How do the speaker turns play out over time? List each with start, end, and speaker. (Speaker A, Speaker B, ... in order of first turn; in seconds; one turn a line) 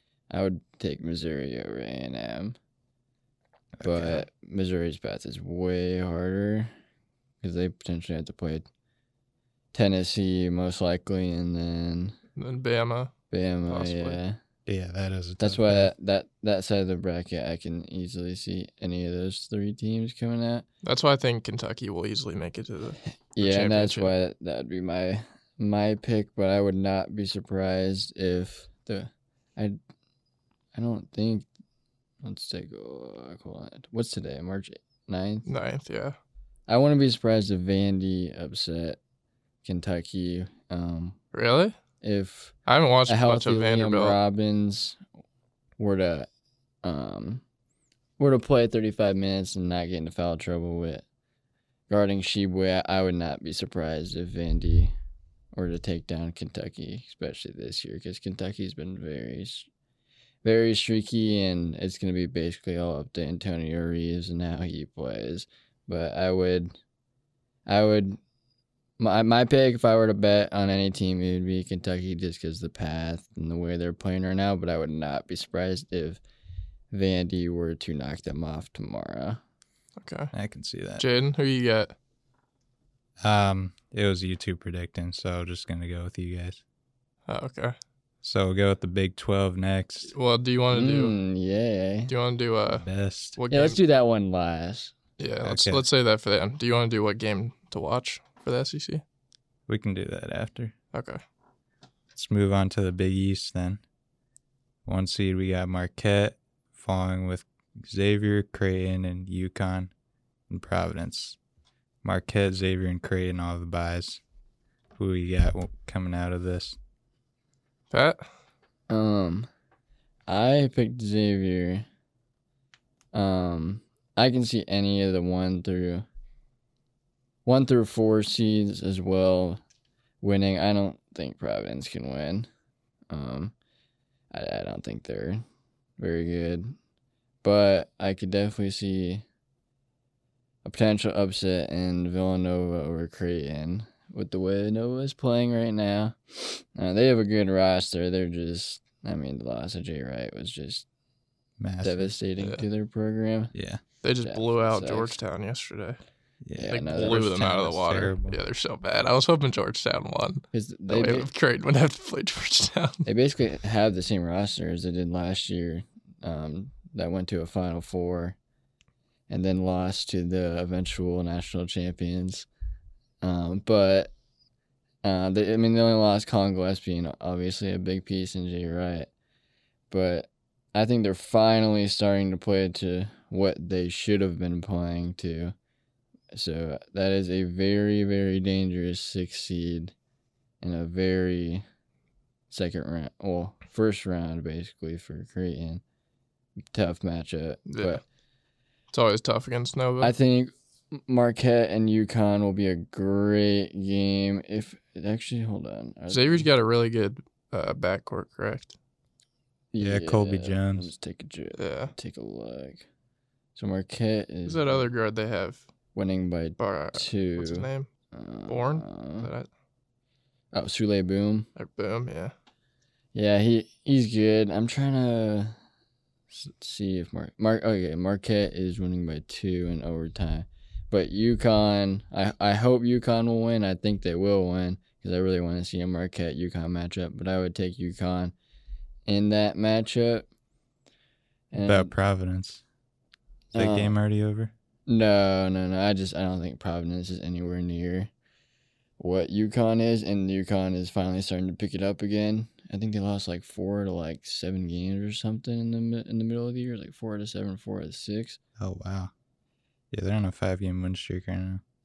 Speaker A: 0.3-2.6
Speaker B: 3.8-4.3
Speaker A: 3.8-6.7
Speaker A: 7.4-8.7
Speaker A: 9.7-12.2
Speaker C: 12.3-13.1
Speaker A: 13.3-14.4
Speaker C: 13.7-14.2
Speaker B: 14.7-15.9
Speaker A: 15.4-20.6
Speaker C: 20.8-24.1
Speaker A: 23.3-29.8
Speaker A: 30.7-31.5
Speaker A: 32.2-35.5
Speaker C: 35.5-36.2
Speaker A: 36.7-39.0
Speaker A: 39.6-41.2
Speaker C: 41.3-41.7
Speaker A: 42.0-42.5
Speaker C: 42.6-44.2
Speaker A: 43.1-45.0
Speaker A: 45.8-46.3
Speaker A: 46.8-47.4
Speaker A: 48.2-51.0
Speaker A: 51.9-54.9
Speaker A: 55.5-59.7
Speaker A: 60.4-66.7
Speaker A: 67.7-68.2
Speaker A: 69.0-76.2
Speaker A: 76.9-79.4
Speaker C: 80.0-80.3
Speaker B: 80.3-81.0
Speaker C: 81.0-81.9
Speaker B: 83.2-86.6
Speaker C: 87.3-87.8
Speaker B: 88.2-90.1
Speaker C: 90.1-91.1
Speaker A: 90.7-92.1
Speaker C: 92.1-93.8
Speaker B: 92.7-93.4
Speaker A: 93.5-94.9
Speaker C: 95.2-99.0
Speaker B: 95.4-95.8
Speaker B: 99.7-100.7
Speaker C: 100.9-101.2
Speaker B: 102.1-103.8
Speaker B: 104.8-109.9
Speaker B: 110.5-111.4
Speaker B: 112.0-114.2
Speaker B: 115.0-116.8
Speaker C: 117.9-118.2
Speaker A: 118.9-119.5
Speaker A: 120.3-121.8
Speaker A: 123.1-126.0
Speaker A: 127.5-129.6
Speaker A: 130.2-132.5
Speaker A: 133.1-133.5
Speaker A: 134.3-135.4
Speaker A: 136.0-136.7
Speaker A: 137.4-139.2
Speaker A: 140.6-150.9
Speaker B: 151.6-152.1
Speaker A: 151.8-153.5
Speaker C: 152.4-152.6
Speaker B: 153.5-153.8
Speaker C: 154.0-156.0
Speaker A: 154.2-155.2
Speaker B: 156.4-158.4
Speaker A: 156.6-157.2
Speaker C: 156.7-163.1
Speaker A: 160.5-161.3
Speaker A: 163.0-168.4
Speaker A: 169.3-172.5
Speaker A: 173.2-174.1
Speaker A: 175.0-179.1
Speaker A: 179.9-185.5
Speaker A: 186.3-189.9
Speaker A: 190.6-191.6
Speaker A: 192.5-195.8
Speaker A: 196.7-198.0
Speaker C: 197.7-198.0
Speaker C: 198.9-200.1
Speaker A: 200.0-206.4
Speaker C: 206.1-208.7
Speaker A: 209.7-212.8
Speaker B: 209.8-210.9
Speaker C: 211.6-211.9
Speaker A: 213.5-214.9
Speaker C: 214.4-215.6
Speaker A: 215.9-219.3
Speaker C: 216.6-217.9
Speaker C: 218.5-219.5
Speaker A: 220.5-221.5
Speaker C: 221.6-222.3
Speaker A: 223.1-225.6
Speaker A: 226.3-238.3
Speaker A: 239.1-240.2
Speaker A: 241.5-241.9
Speaker B: 241.6-242.6
Speaker A: 243.5-243.9
Speaker B: 243.6-244.5
Speaker A: 244.9-248.1
Speaker A: 249.0-258.4
Speaker B: 258.6-259.1
Speaker B: 259.9-261.6